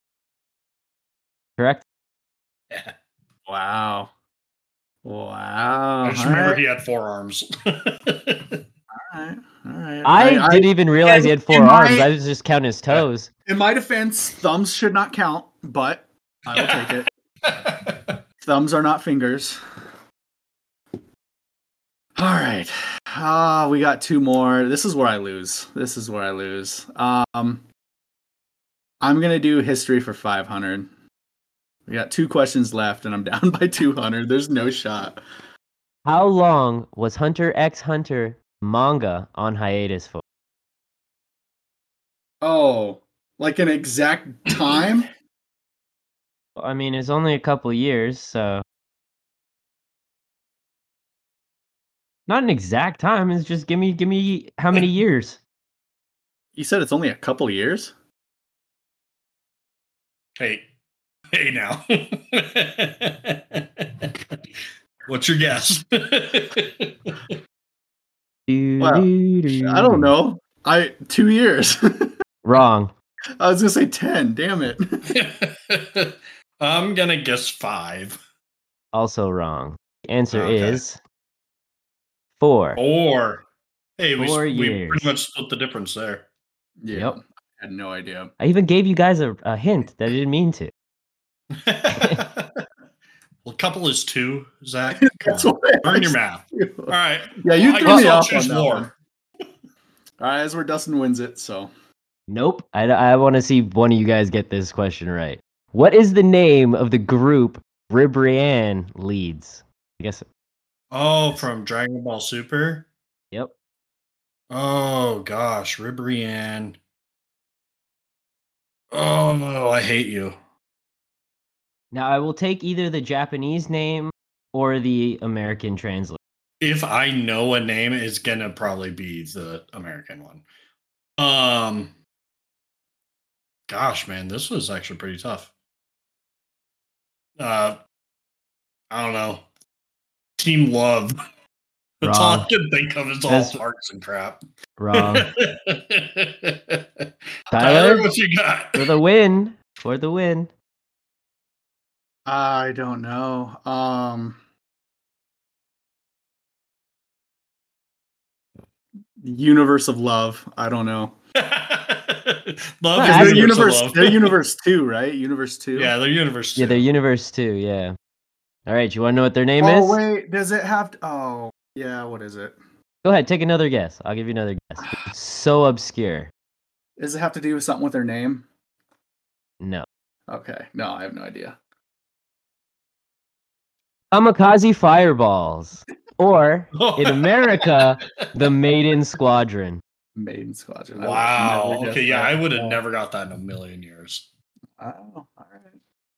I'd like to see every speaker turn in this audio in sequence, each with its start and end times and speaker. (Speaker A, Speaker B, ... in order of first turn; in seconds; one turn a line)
Speaker A: 1.6-1.8
Speaker B: 3.5-4.1
Speaker B: 5.0-6.6
Speaker C: 6.0-8.6
Speaker B: 9.1-12.1
Speaker A: 10.0-13.3
Speaker B: 13.4-17.1
Speaker C: 16.5-18.2
Speaker B: 18.4-19.6
Speaker B: 22.2-27.6
Speaker B: 29.0-30.9
Speaker B: 31.9-35.2
Speaker A: 36.0-40.2
Speaker B: 42.4-45.1
Speaker A: 46.6-48.6
Speaker A: 52.3-55.4
Speaker B: 56.5-57.9
Speaker C: 60.4-60.6
Speaker C: 61.3-64.3
Speaker C: 65.1-67.3
Speaker A: 68.5-70.1
Speaker B: 68.8-72.1
Speaker A: 72.4-72.9
Speaker B: 73.4-75.0
Speaker C: 75.1-78.2
Speaker A: 78.9-81.0
Speaker C: 80.3-80.8
Speaker A: 82.4-82.8
Speaker C: 82.8-83.4
Speaker C: 84.0-86.2
Speaker A: 84.2-85.0
Speaker B: 86.8-88.3
Speaker A: 88.4-90.7
Speaker C: 91.5-92.6
Speaker A: 92.0-92.2
Speaker C: 93.4-98.9
Speaker B: 95.0-98.9
Speaker B: 100.2-101.7
Speaker A: 102.3-110.2
Speaker C: 110.9-112.9
Speaker C: 114.5-116.8
Speaker C: 118.9-120.3
Speaker A: 121.9-126.2
Speaker C: 126.6-130.4
Speaker C: 131.2-131.9
Speaker C: 133.7-135.5
Speaker C: 137.4-137.8
Speaker C: 138.9-139.4
Speaker C: 140.4-141.2
Speaker C: 142.0-144.4
Speaker A: 142.0-142.5
Speaker A: 143.3-143.6
Speaker A: 144.8-145.3
Speaker C: 144.9-148.9
Speaker A: 147.5-148.1
Speaker A: 148.7-150.5
Speaker B: 152.2-154.4
Speaker B: 159.2-161.1
Speaker C: 161.3-164.4
Speaker A: 162.9-163.5
Speaker B: 163.0-165.9
Speaker C: 165.7-166.8
Speaker A: 166.6-167.9
Speaker A: 168.7-170.0
Speaker B: 169.6-172.6
Speaker A: 173.0-176.3
Speaker B: 177.0-178.4
Speaker A: 179.6-179.8
Speaker B: 180.3-181.6
Speaker A: 184.1-189.8
Speaker C: 186.7-187.8
Speaker B: 190.2-192.8
Speaker C: 191.0-194.2
Speaker B: 194.8-195.7